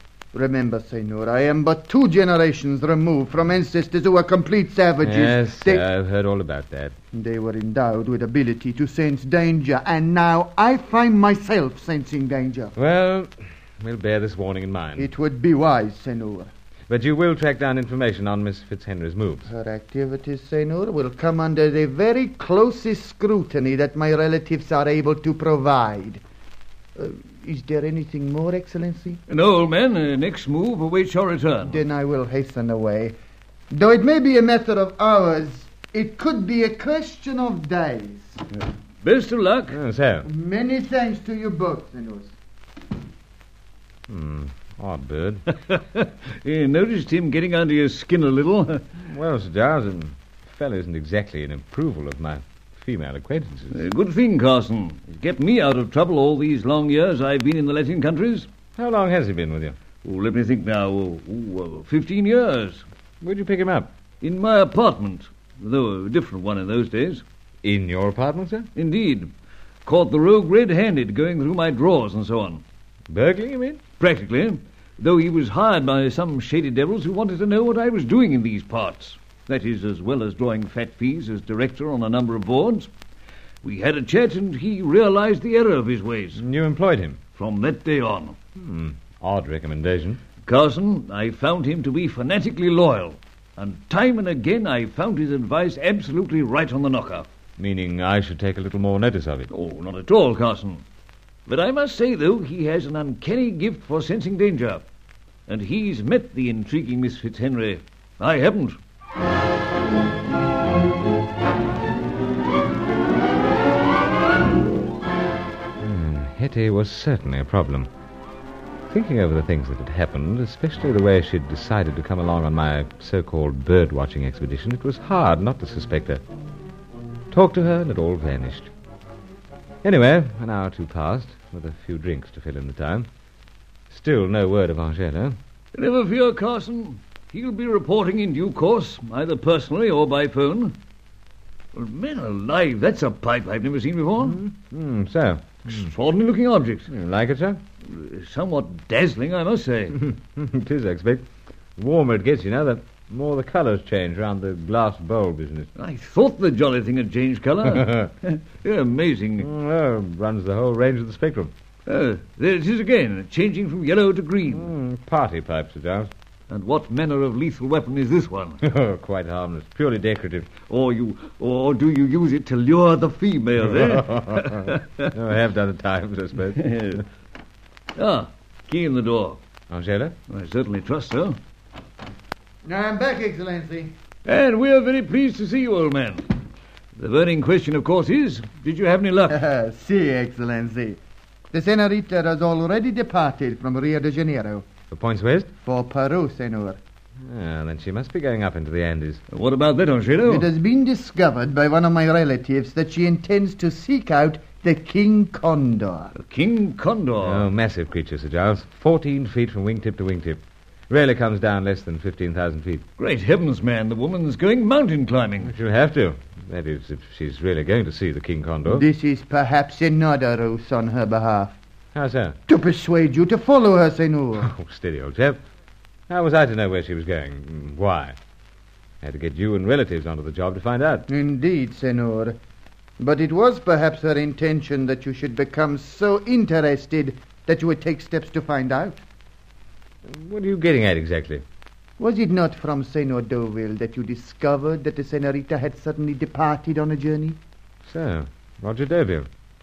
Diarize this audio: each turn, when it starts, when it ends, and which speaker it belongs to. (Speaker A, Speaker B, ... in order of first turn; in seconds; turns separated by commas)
Speaker A: 0.3-5.8, Speaker B: 5.0-6.9, Speaker A: 7.1-12.7, Speaker B: 12.8-15.1, Speaker A: 15.0-16.5, Speaker B: 16.9-19.5, Speaker A: 19.5-26.2, Speaker A: 26.9-29.2, Speaker C: 29.3-31.8, Speaker A: 31.6-33.1, Speaker A: 33.7-38.4, Speaker C: 38.6-39.8, Speaker B: 39.7-40.3, Speaker A: 40.2-42.4, Speaker B: 44.1-45.4, Speaker C: 45.7-48.8, Speaker B: 49.0-53.8, Speaker C: 53.7-58.5, Speaker B: 58.8-59.8, Speaker C: 60.0-62.8, Speaker B: 63.2-63.9, Speaker C: 64.2-67.2, Speaker B: 67.6-68.7, Speaker C: 68.8-69.3, Speaker C: 69.8-72.6, Speaker B: 73.1-73.8, Speaker C: 74.0-82.9, Speaker C: 83.6-86.4, Speaker B: 86.4-87.2, Speaker C: 87.3-88.4, Speaker B: 88.5-90.2, Speaker C: 90.4-97.3, Speaker B: 97.6-99.5, Speaker C: 99.5-100.8, Speaker C: 101.5-104.8, Speaker C: 105.5-108.8, Speaker B: 115.8-117.9, Speaker B: 118.9-126.2, Speaker B: 127.3-128.7, Speaker B: 129.8-133.1, Speaker B: 133.9-135.4, Speaker C: 135.7-140.8, Speaker C: 141.7-144.4, Speaker B: 144.2-145.7, Speaker C: 145.7-146.9, Speaker B: 146.9-147.6, Speaker C: 147.9-150.0, Speaker B: 149.9-155.7, Speaker C: 155.8-159.5, Speaker B: 157.7-158.1, Speaker B: 159.4-161.5, Speaker C: 161.8-164.7, Speaker B: 164.5-166.1, Speaker C: 166.5-168.6, Speaker B: 168.6-170.5, Speaker C: 170.7-175.1, Speaker B: 173.9-174.5, Speaker B: 175.1-176.6, Speaker C: 176.6-177.0, Speaker C: 177.9-179.4, Speaker B: 179.7-180.2, Speaker C: 180.3-181.4, Speaker A: 182.6-183.9, Speaker C: 184.2-186.2, Speaker C: 186.9-189.4, Speaker A: 189.3-191.0, Speaker A: 191.5-194.7, Speaker B: 194.9-195.5, Speaker A: 195.6-196.8, Speaker B: 197.3-199.2, Speaker C: 199.3-200.5, Speaker A: 200.2-206.1, Speaker C: 206.2-207.5, Speaker B: 207.2-212.8, Speaker C: 213.0-215.5, Speaker B: 215.4-218.8, Speaker A: 218.7-221.6, Speaker B: 221.9-222.4, Speaker A: 222.5-224.5, Speaker B: 224.4-225.4, Speaker B: 226.1-228.2, Speaker B: 229.0-231.1, Speaker A: 231.1-232.4, Speaker A: 233.0-239.0, Speaker B: 240.1-241.4, Speaker A: 242.0-247.4, Speaker B: 247.8-249.3